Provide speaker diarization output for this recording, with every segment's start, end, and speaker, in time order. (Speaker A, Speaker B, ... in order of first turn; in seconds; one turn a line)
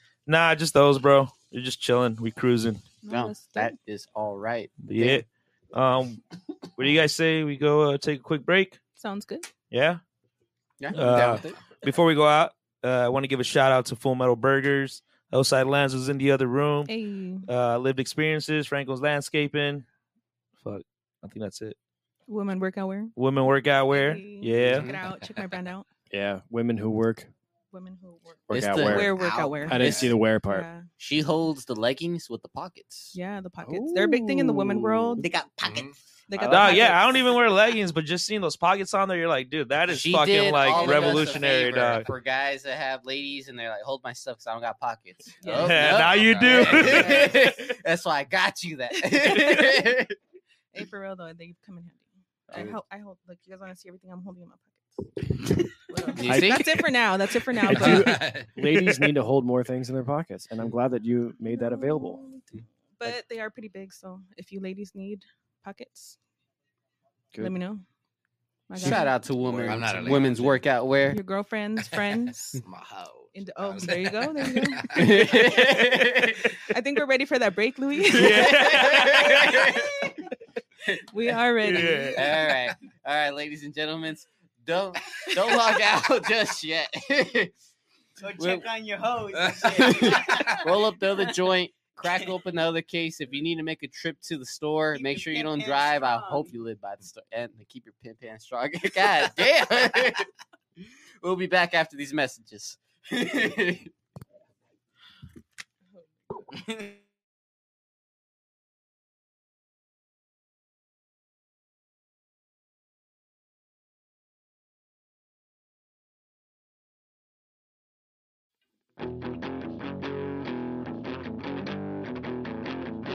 Speaker A: 0.3-2.9
Speaker B: 3.0-3.8
Speaker C: 3.1-5.2
Speaker A: 4.8-6.2
Speaker A: 6.8-8.8
Speaker B: 9.0-9.5
Speaker A: 9.7-10.0
Speaker C: 10.8-11.7
Speaker A: 10.9-16.9
Speaker B: 16.9-17.5
Speaker A: 17.5-19.9
Speaker A: 20.6-21.8
Speaker B: 22.3-25.9
Speaker A: 23.2-24.9
Speaker C: 24.6-25.0
Speaker D: 26.1-27.3
Speaker B: 27.7-30.9
Speaker D: 28.5-30.7
Speaker C: 28.5-30.1
Speaker E: 29.2-29.8
Speaker F: 29.8-30.1
Speaker C: 31.0-33.2
Speaker B: 33.1-35.3
Speaker D: 33.6-35.2
Speaker E: 35.2-35.8
Speaker F: 35.6-36.0
Speaker B: 36.3-37.3
Speaker A: 36.5-42.1
Speaker C: 39.9-50.2
Speaker E: 40.8-41.1
Speaker B: 45.4-46.1
Speaker A: 45.6-47.3
Speaker F: 46.0-47.1
Speaker B: 46.6-47.6
Speaker B: 49.0-49.9
Speaker B: 50.7-55.1
Speaker B: 55.9-58.3
Speaker C: 56.1-56.9
Speaker D: 56.2-56.7
Speaker D: 57.6-62.2
Speaker F: 57.7-58.5
Speaker B: 61.4-66.2
Speaker B: 67.4-67.8
Speaker B: 68.7-69.2
Speaker C: 68.8-71.2
Speaker F: 69.4-70.7
Speaker B: 71.1-72.6
Speaker F: 72.5-75.7
Speaker B: 73.3-75.2
Speaker C: 75.0-76.4
Speaker B: 76.7-78.8
Speaker A: 78.1-79.7
Speaker C: 78.1-80.0
Speaker C: 80.9-81.4
Speaker B: 81.1-82.4
Speaker A: 81.6-82.3
Speaker C: 82.1-87.5
Speaker E: 88.2-91.0
Speaker C: 88.4-88.7
Speaker C: 89.6-100.3
Speaker E: 94.9-96.5
Speaker C: 101.2-103.9